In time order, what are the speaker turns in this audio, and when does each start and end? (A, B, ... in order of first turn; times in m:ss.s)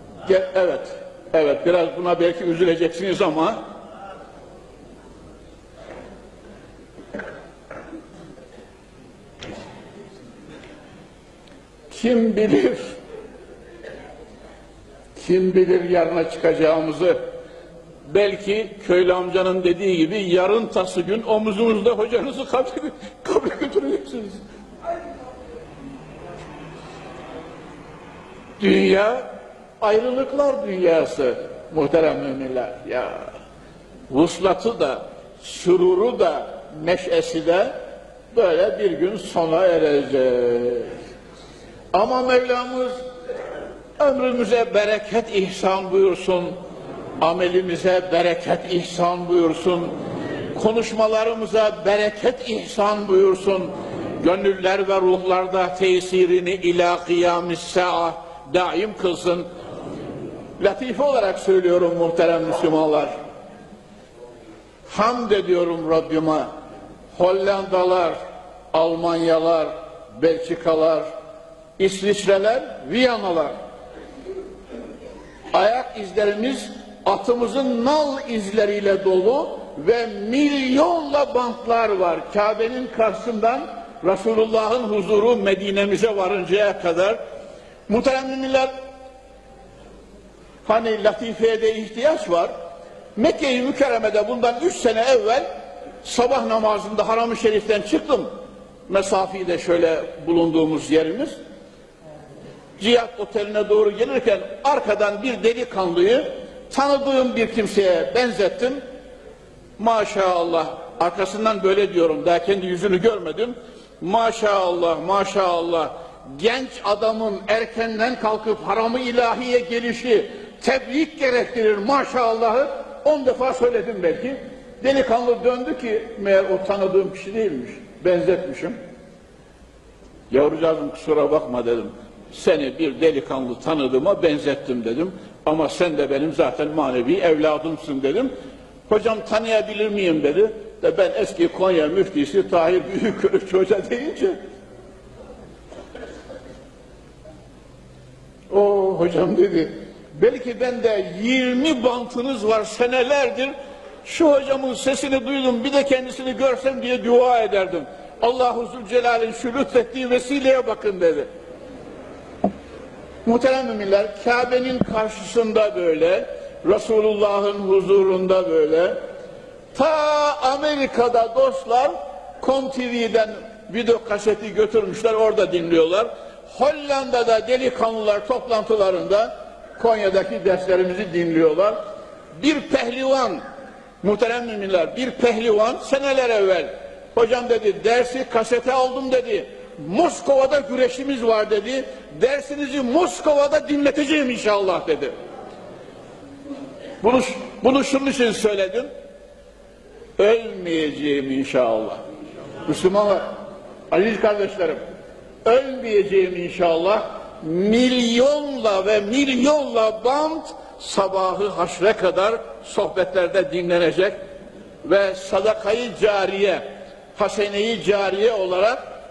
0:00.2-0:03.6 A
0:11.9-0:12.9 A
0:15.2-0:17.2 A
0:18.1-0:24.4 A
0:28.6-0:29.3 A
0:29.8-0:33.3 A
0:34.1-0:37.7 A
0:38.3-0:40.9 A
0:41.9-0:43.0 A
0:44.0-0:46.5 A
0:47.2-0:49.9 A
0:50.5-0:59.5 A
1:00.6-1:03.1 A
1:04.9-1:06.5 A
1:07.1-1:08.2 A
1:08.7-1:11.0 A
1:11.8-1:13.5 A
1:15.5-1:27.2 A
1:27.9-1:28.7 A
1:30.6-1:32.5 A
1:33.2-1:35.5 A
1:36.0-1:38.3 A
1:38.9-1:41.3 A
1:42.8-1:48.8 A
1:49.8-2:08.8 A
2:10.3-2:18.3 A
2:18.9-2:24.4 A
2:28.5-2:41.3 A
2:43.2-2:49.0 A
2:49.7-3:01.8 A
3:02.4-3:03.4 A
3:04.0-3:15.1 A
3:17.0-3:18.9 A
3:20.2-3:22.0 A
3:22.6-3:23.3 A
3:23.9-3:24.8 A
3:25.4-3:34.2 A
3:34.8-3:36.6 A
3:37.1-3:38.8 A